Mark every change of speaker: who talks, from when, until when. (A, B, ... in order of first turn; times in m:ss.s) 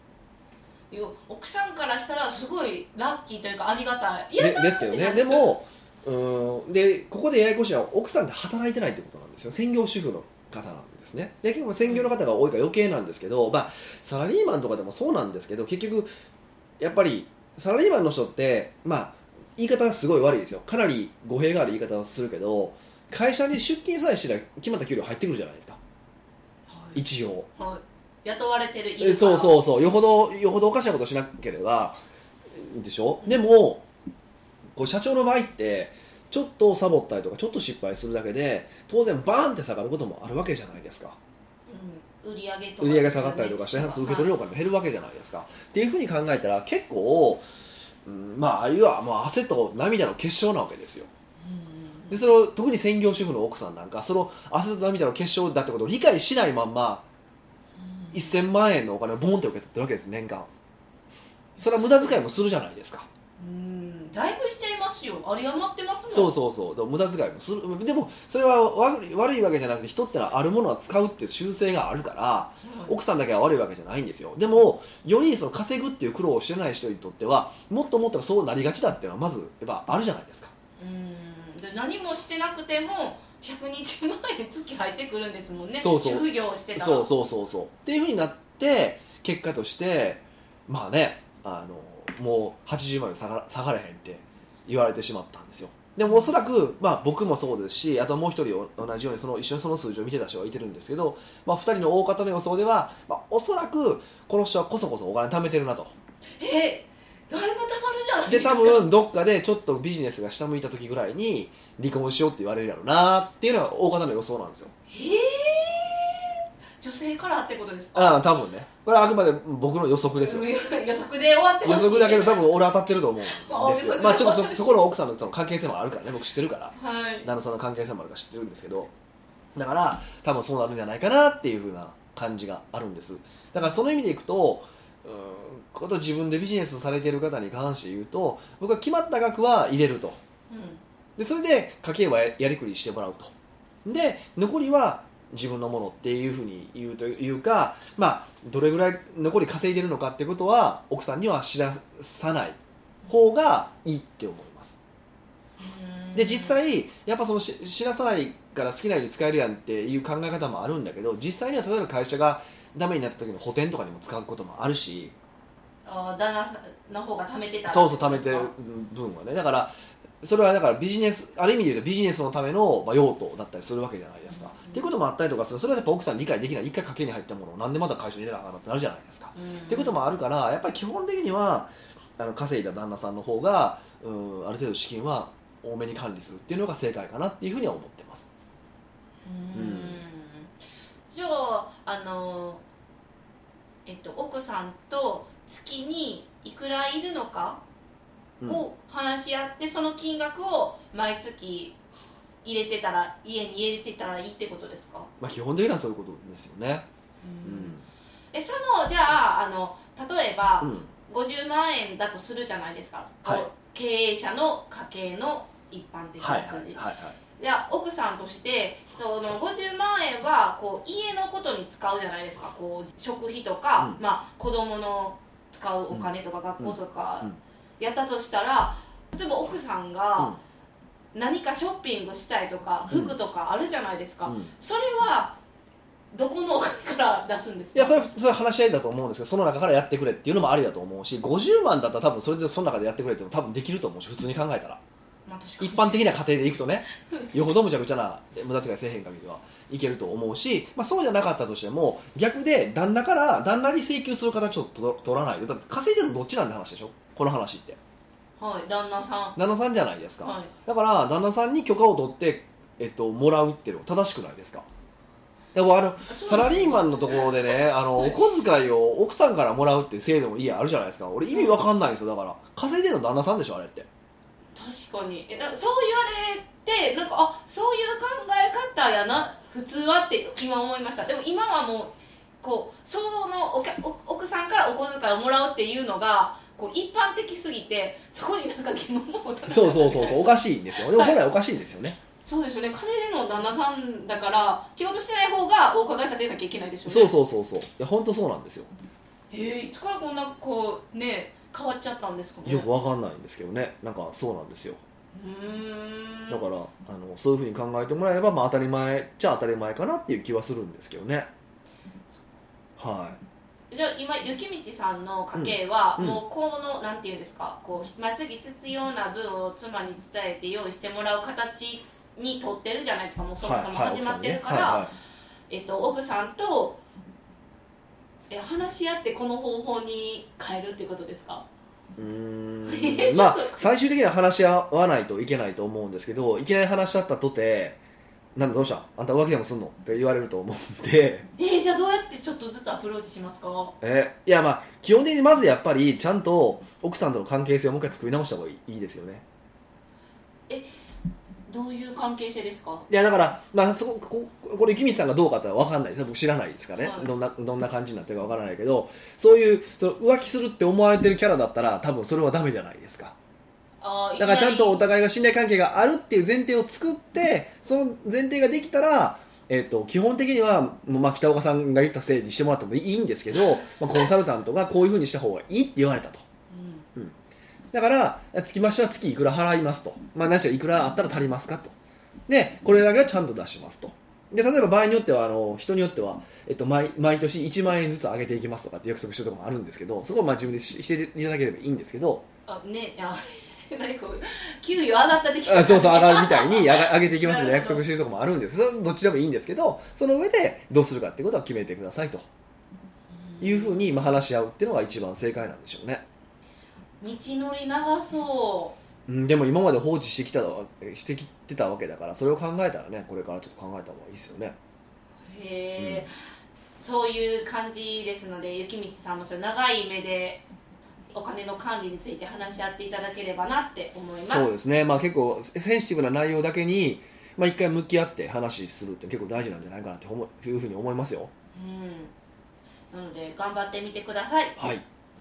0:00.9-0:05.5 A
0:04.4-0:16.1 B
0:11.8-0:12.1 A
0:16.8-0:25.8 B
0:26.7-0:27.0 A
0:27.0-0:27.5 B
0:27.6-0:29.6 A
0:29.0-0:32.0 B
0:32.5-0:33.8 B
0:34.8-0:41.2 B
0:41.7-0:44.3 A
0:42.8-0:47.4 B
0:48.0-0:51.1 B
0:51.4-0:52.2 A
0:52.1-0:57.0 B
0:57.8-0:58.3 A
0:58.1-1:00.5 B
1:01.6-1:02.2 A
1:01.6-1:03.1 B
1:03.4-1:06.3 A
1:06.1-1:20.5 B
1:12.6-1:13.0 A
1:20.8-1:27.1 A
1:25.8-1:45.9 B
1:36.0-1:36.4 A
1:46.4-1:48.9 A
1:48.3-1:54.7 B
1:54.9-1:58.2 A
1:58.0-2:00.5 B
2:00.2-2:02.5 A
2:01.6-2:08.9 B
2:03.4-2:04.8 A
2:06.8-2:07.3 A
2:09.6-2:20.2 B
2:20.5-2:20.8 A
2:21.2-2:23.3 B
2:23.8-2:32.6 B
2:33.1-2:34.8 B
2:35.6-2:36.6 A
2:36.2-2:45.2 B
2:45.8-2:48.5 A
2:47.7-3:08.3 B
2:54.3-2:54.9 A
2:59.4-3:00.1 A
3:09.2-3:10.5 A
3:09.5-3:10.0 B
3:11.1-3:12.6 A
3:13.9-3:17.6 A
3:18.5-3:21.8 A
3:22.4-3:25.1 A
3:25.2-3:26.9 B
3:27.2-3:27.8 A
3:27.4-3:27.8 B
3:28.3-3:36.9 A
3:30.6-3:30.9 B
3:36.2-3:37.2 B
3:37.4-3:50.4 A
3:46.6-3:47.4 B
3:51.1-3:55.4 A
3:52.9-3:53.2 B
3:54.2-3:54.5 B
3:56.1-3:58.1 A
3:57.8-4:04.8 B
4:05.3-4:06.1 A
4:05.6-4:17.8 B
4:18.4-4:19.4 A
4:19.4-4:24.7 B
4:20.2-4:20.5 A
4:25.5-4:33.9 B
4:26.1-4:28.2 A
4:31.3-4:31.6 A
4:34.6-4:51.2 A
4:49.5-4:52.0 B
4:52.2-4:57.1 A
4:56.9-4:58.7 B
4:59.3-5:02.7 A
5:02.4-5:04.8 B
5:05.2-5:06.4 A
5:06.3-5:11.3 B
5:12.8-5:13.2 B
5:13.7-5:24.9 A
5:15.3-5:16.2 B
5:23.4-5:24.9 B
5:25.5-5:26.8 A
5:28.3-5:31.4 A
5:32.0-5:37.8 B
5:32.7-5:33.7 A
5:38.4-5:41.3 B
5:41.4-5:43.8 A
5:43.8-5:49.2 B
5:51.5-5:52.9 A
5:52.9-6:03.2 B
5:56.8-5:57.1 A
6:03.8-6:04.8 A
6:04.2-6:16.3 B
6:16.5-6:16.9 A
6:17.7-6:21.8 B
6:22.3-6:32.2 B
6:32.5-6:37.8 A
6:35.5-6:42.3 B
6:43.2-6:43.8 A
6:43.4-6:46.0 B
6:47.0-6:48.8 A
6:49.1-6:54.6 B
6:55.2-6:56.1 A
6:55.8-6:56.1 B
6:56.8-7:00.4 A
7:01.1-7:04.5 A
7:04.3-7:11.3 B
7:11.6-7:12.1 A
7:12.9-7:14.8 A
7:14.6-7:14.8 B